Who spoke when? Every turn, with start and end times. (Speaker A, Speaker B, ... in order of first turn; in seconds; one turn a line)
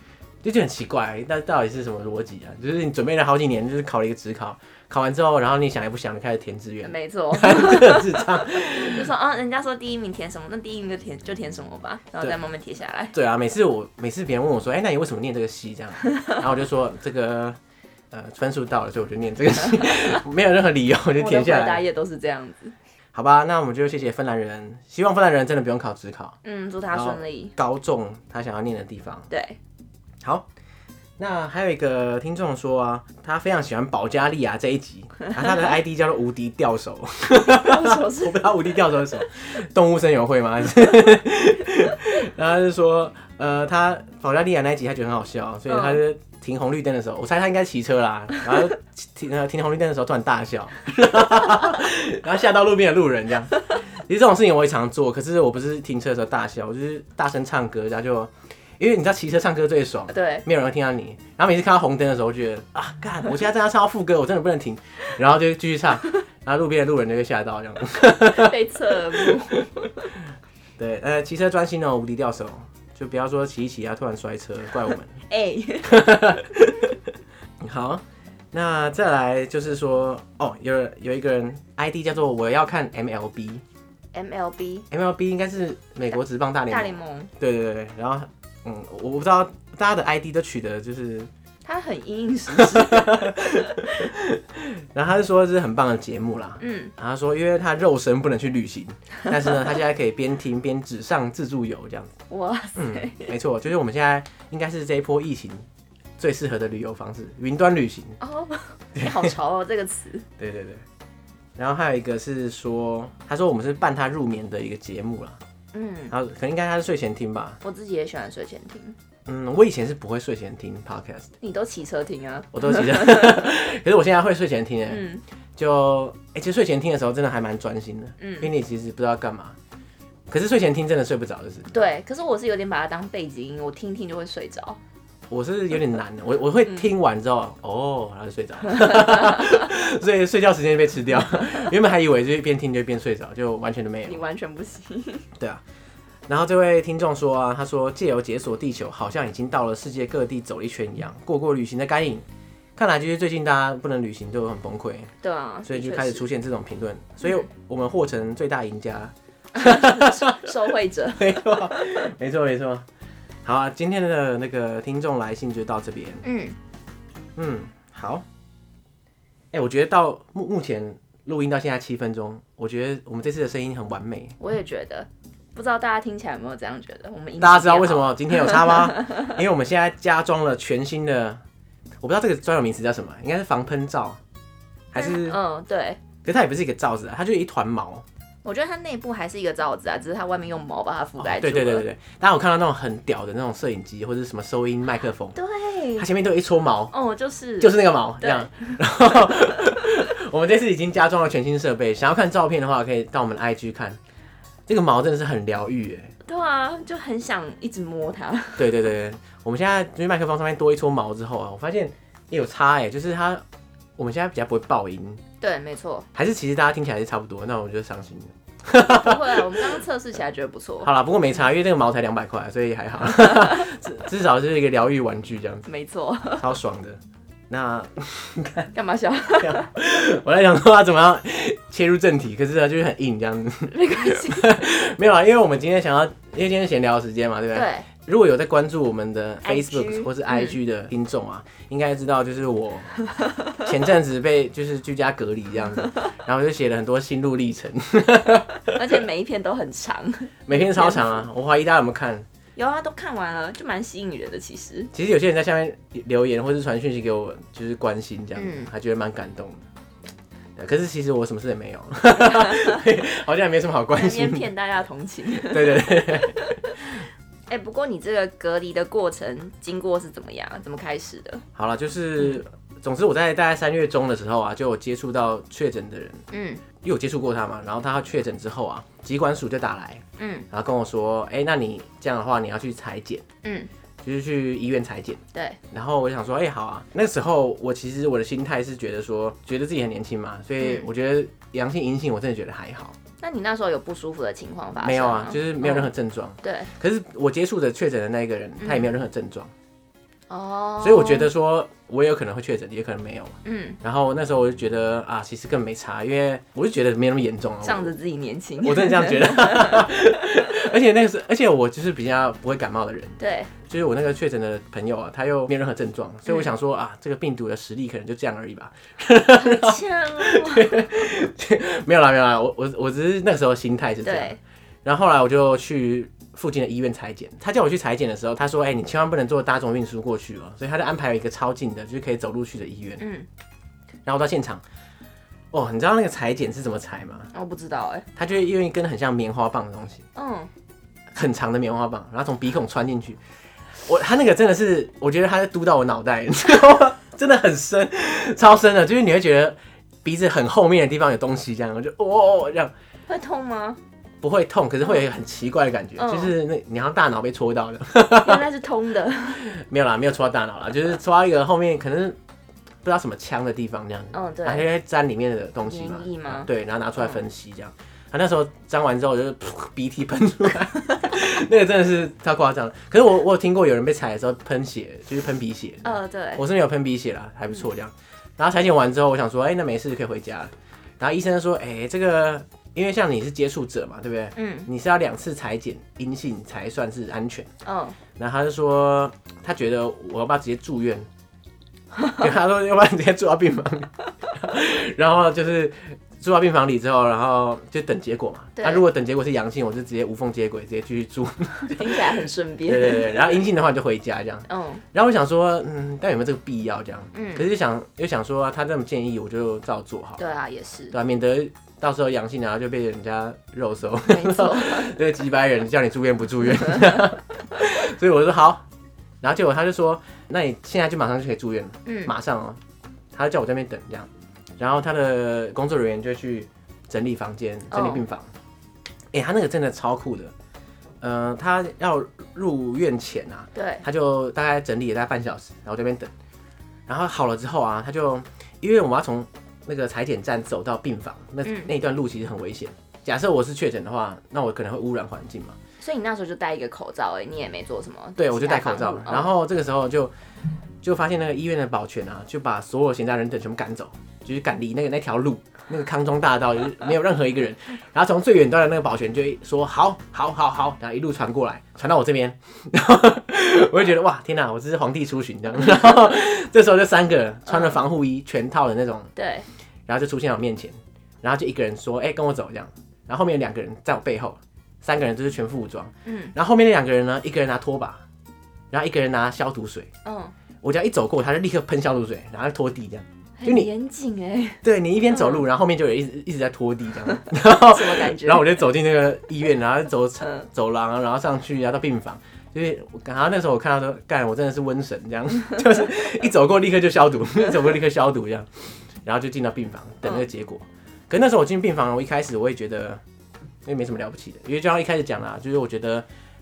Speaker A: 0.4-9.1
Speaker B: 6.8-13.1
Speaker A: 13.1-17.6
Speaker A: 18.1-21.8
Speaker B: 21.2-22.8
Speaker A: 23.1-26.4
Speaker B: 26.4-27.5
Speaker A: 26.9-29.3
Speaker B: 29.3-29.6
Speaker A: 31.2-68.5
Speaker B: 37.4-38.5
Speaker B: 45.7-46.0
Speaker B: 60.1-60.4
Speaker B: 68.2-70.1
Speaker A: 70.8-75.1
Speaker B: 75.3-76.0
Speaker A: 75.8-76.9
Speaker A: 77.6-83.6
Speaker B: 84.1-84.9
Speaker A: 84.9-91.3
Speaker B: 86.7-87.3
Speaker B: 91.6-93.6
Speaker A: 92.5-102.1
Speaker B: 96.6-96.9
Speaker B: 102.3-103.3
Speaker A: 102.8-105.6
Speaker A: 106.2-108.2
Speaker B: 108.2-110.2
Speaker A: 108.9-109.3
Speaker A: 110.4-110.8
Speaker A: 111.6-115.4
Speaker B: 115.7-116.1
Speaker A: 116.1-117.6
Speaker B: 117.6-119.0
Speaker A: 119.3-121.3
Speaker B: 121.4-123.4
Speaker A: 122.5-129.6
Speaker B: 124.9-125.2
Speaker B: 128.2-128.5
Speaker A: 130.3-131.7
Speaker B: 131.7-134.8
Speaker A: 135.3-144.2
Speaker B: 144.0-145.3
Speaker A: 146.3-152.2
Speaker A: 152.8-155.1
Speaker B: 155.2-156.3
Speaker A: 155.6-160.6
Speaker B: 159.5-161.4
Speaker A: 161.2-162.8
Speaker A: 163.4-166.2
Speaker B: 166.2-166.6
Speaker A: 167.3-168.2
Speaker A: 169.5-174.3
Speaker B: 174.4-179.3
Speaker A: 177.4-181.4
Speaker A: 182.0-184.2
Speaker A: 184.9-185.4
Speaker B: 184.9-186.0
Speaker A: 186.2-188.0
Speaker B: 188.4-191.8
Speaker A: 191.2-195.4
Speaker B: 195.3-196.1
Speaker A: 195.9-196.9
Speaker B: 196.9-198.8
Speaker A: 197.6-204.0
Speaker A: 204.7-206.1
Speaker B: 206.2-208.7
Speaker A: 208.6-213.4
Speaker A: 214.0-215.2
Speaker B: 215.4-216.1
Speaker A: 216.1-219.7
Speaker B: 218.8-220.9
Speaker A: 220.8-225.6
Speaker B: 223.2-223.6
Speaker B: 225.6-226.5
Speaker A: 226.4-227.0
Speaker A: 227.5-228.7
Speaker B: 228.7-229.7
Speaker A: 229.3-242.9
Speaker B: 233.7-234.5
Speaker B: 237.5-237.9
Speaker B: 239.4-240.6
Speaker A: 243.5-249.0
Speaker B: 248.7-251.2
Speaker A: 250.4-252.2
Speaker B: 252.6-254.9
Speaker A: 254.9-259.6
Speaker B: 258.4-258.7
Speaker A: 260.6-264.5
Speaker B: 262.3-262.7
Speaker B: 263.9-266.8
Speaker A: 265.3-267.0
Speaker B: 267.5-271.4
Speaker A: 271.5-276.2
Speaker B: 276.3-276.6
Speaker A: 276.8-283.2
Speaker B: 280.2-280.5
Speaker B: 283.4-283.7
Speaker A: 284.0-293.0
Speaker B: 285.3-285.6
Speaker B: 290.6-290.9
Speaker B: 293.2-295.9
Speaker A: 294.8-299.5
Speaker B: 296.4-296.7
Speaker B: 298.6-298.9
Speaker B: 300.3-301.3
Speaker A: 300.8-307.9
Speaker B: 303.4-303.8
Speaker B: 307.6-309.9
Speaker A: 308.6-333.0
Speaker B: 313.2-313.5
Speaker B: 316.3-316.5
Speaker B: 319.3-321.0
Speaker B: 324.0-324.4
Speaker B: 333.0-333.3
Speaker A: 334.1-334.6
Speaker A: 335.5-337.3
Speaker B: 337.3-338.1
Speaker A: 338.1-340.0
Speaker B: 340.1-340.5
Speaker A: 341.1-343.2
Speaker A: 343.8-352.7
Speaker B: 353.1-353.8
Speaker A: 354.2-358.4
Speaker B: 356.0-356.3
Speaker B: 358.2-359.4
Speaker A: 359.4-362.2
Speaker A: 362.8-387.5
Speaker B: 364.1-364.6
Speaker B: 365.6-367.2
Speaker B: 375.8-376.4
Speaker B: 384.4-384.7
Speaker B: 387.6-388.0
Speaker A: 388.2-391.1
Speaker A: 392.2-402.0
Speaker B: 398.6-398.9
Speaker B: 401.7-403.4
Speaker A: 402.7-410.2
Speaker B: 404.5-404.8
Speaker B: 407.1-407.4
Speaker B: 410.2-410.9
Speaker A: 410.9-418.6
Speaker B: 414.1-414.9
Speaker A: 419.2-422.6
Speaker B: 421.9-422.1
Speaker A: 423.1-428.3
Speaker B: 427.7-428.0
Speaker A: 429.1-430.3
Speaker A: 431.0-436.1
Speaker B: 433.5-433.8
Speaker A: 436.9-445.6
Speaker B: 441.4-441.7
Speaker B: 445.8-449.3
Speaker A: 448.2-450.1
Speaker A: 450.8-469.1
Speaker B: 467.5-467.8
Speaker B: 469.1-469.5
Speaker A: 469.9-478.0
Speaker B: 476.0-476.3
Speaker A: 478.7-479.9
Speaker B: 480.0-480.3
Speaker A: 480.6-483.7
Speaker B: 483.4-485.4
Speaker A: 484.6-503.0
Speaker B: 487.1-488.6
Speaker B: 490.2-490.5
Speaker A: 503.6-506.1